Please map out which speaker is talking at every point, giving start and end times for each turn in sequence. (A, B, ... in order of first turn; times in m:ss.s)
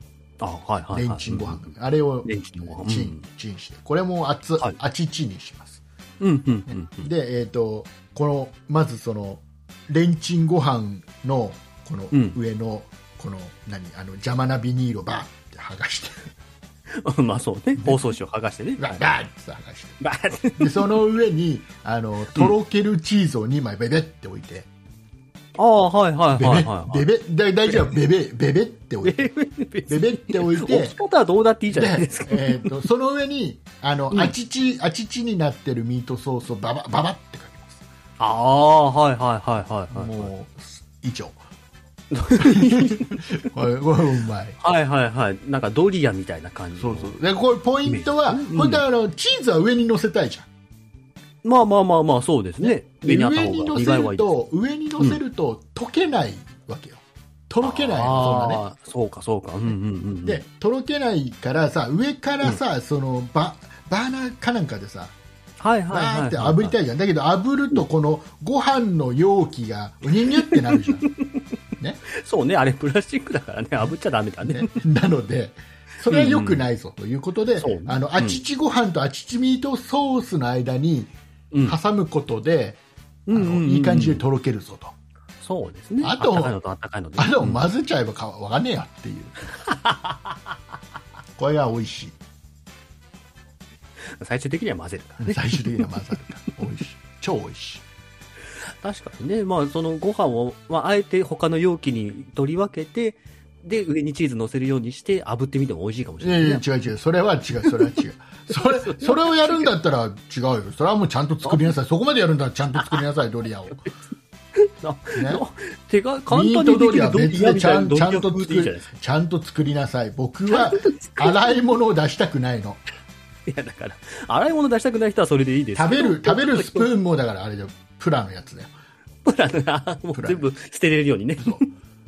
0:00.4-0:01.7 A
0:00.9-0:05.8 B
0:02.2-0:03.2 A
0:06.2-0:07.1 A
0:06.7-0:16.3 B
0:12.1-0:12.4 A
0:16.9-0:19.0 A
0:17.8-0:18.1 B
0:18.8-0:20.0 B
0:20.0-0:21.0 A
0:20.6-0:24.7 B
0:25.6-0:27.1 A
0:26.3-0:29.3 B
0:29.0-0:32.7 A
0:29.9-0:31.0 B
0:31.7-0:37.8 B
0:38.2-0:40.3 A
0:39.9-0:41.4 B
0:42.1-0:43.5 A
0:42.3-0:44.6 B
0:44.6-0:47.2 A
0:46.8-0:50.5 B
0:47.9-0:48.8 A
0:51.4-0:54.3 A
0:52.6-0:58.6 B
0:57.6-1:00.4 A
1:00.2-1:05.2 B
1:05.6-1:06.8 A
1:05.9-1:11.0 B
1:10.3-1:11.4 A
1:12.1-1:14.7 A
1:14.4-1:22.8 B
1:16.1-1:16.6 A
1:17.6-1:18.4 A
1:21.5-1:21.8 A
1:23.3-1:24.2 A
1:23.3-1:24.9 B
1:25.4-1:27.6 A
1:26.0-1:26.6 B
1:27.2-1:29.4 B
1:29.6-1:30.3 A
1:31.4-1:32.2 B
1:34.2-1:35.9 A
1:35.2-1:37.8 B
1:38.8-1:46.6 A
1:46.2-1:53.8 B
1:48.8-1:49.7 A
1:54.6-1:58.9 A
1:55.2-1:55.4 B
1:56.3-2:02.8 B
2:00.5-2:01.6 A
2:03.5-2:06.9 A
2:05.8-2:08.7 B
2:09.2-2:11.6 A
2:10.1-2:10.5 B